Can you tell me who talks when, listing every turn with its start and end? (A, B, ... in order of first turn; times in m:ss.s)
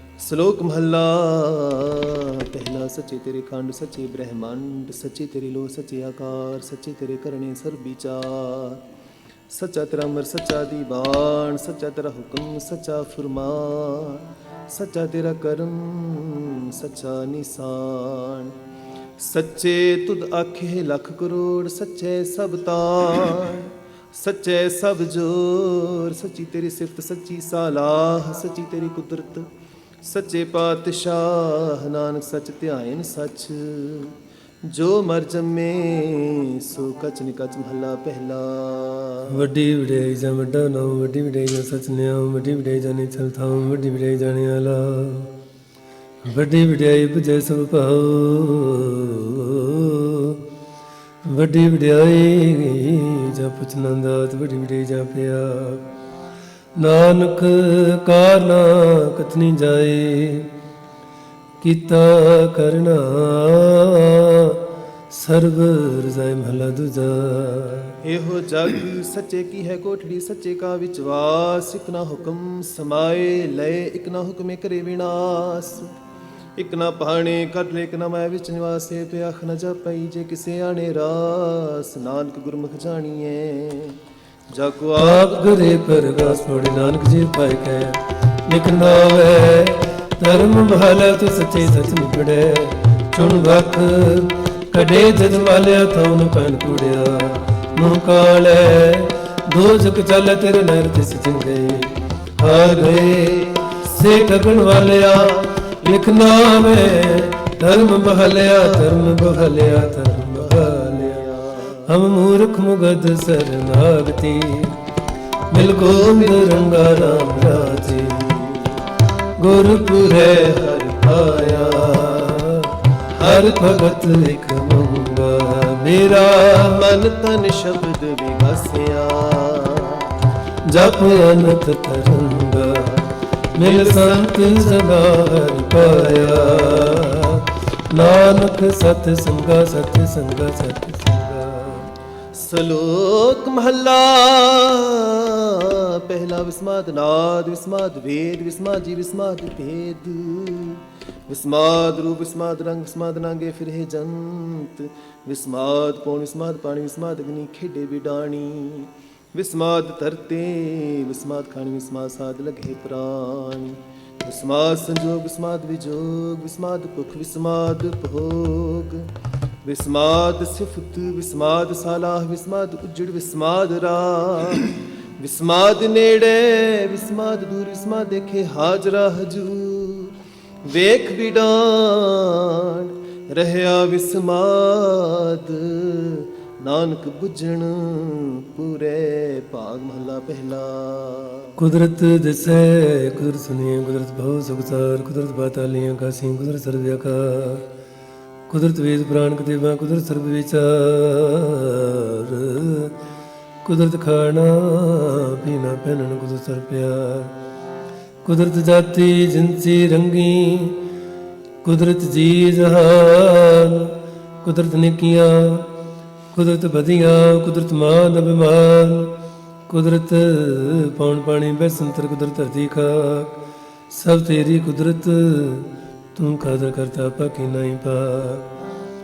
0:00.2-0:08.8 A
0:09.5-0:18.5 A
0:19.2-0:29.5 A
0:30.0-0:34.1 A
0:34.7-0:39.4 A
0:39.3-0:45.3 B
0:46.2-0:50.4 B
0:51.2-0:55.8 B
0:56.8-1:00.5 B
1:01.6-1:08.0 B
1:08.0-1:15.9 A
1:16.6-1:25.5 A
1:25.0-1:51.2 B
1:42.4-1:43.8 A
1:50.2-1:51.8 A
1:51.9-1:54.8 B
1:55.5-1:58.5 B
1:55.5-1:57.3 A
1:58.4-1:58.8 A
1:59.4-2:00.5 B
1:59.6-2:02.4 A
2:02.0-2:06.8 B
2:03.1-2:04.0 A
2:06.2-2:10.1 A
2:10.7-2:21.9 B
2:13.6-2:15.0 A
2:16.1-2:17.0 A
2:22.3-2:49.1 A
2:49.6-3:11.5 A
3:11.6-3:17.6 B
3:18.5-3:22.9 B
3:23.6-3:27.3 B
3:28.2-3:30.8 B
3:31.6-3:35.7 B
3:36.3-3:39.1 B
3:39.7-3:43.4 B
3:43.9-3:48.4 B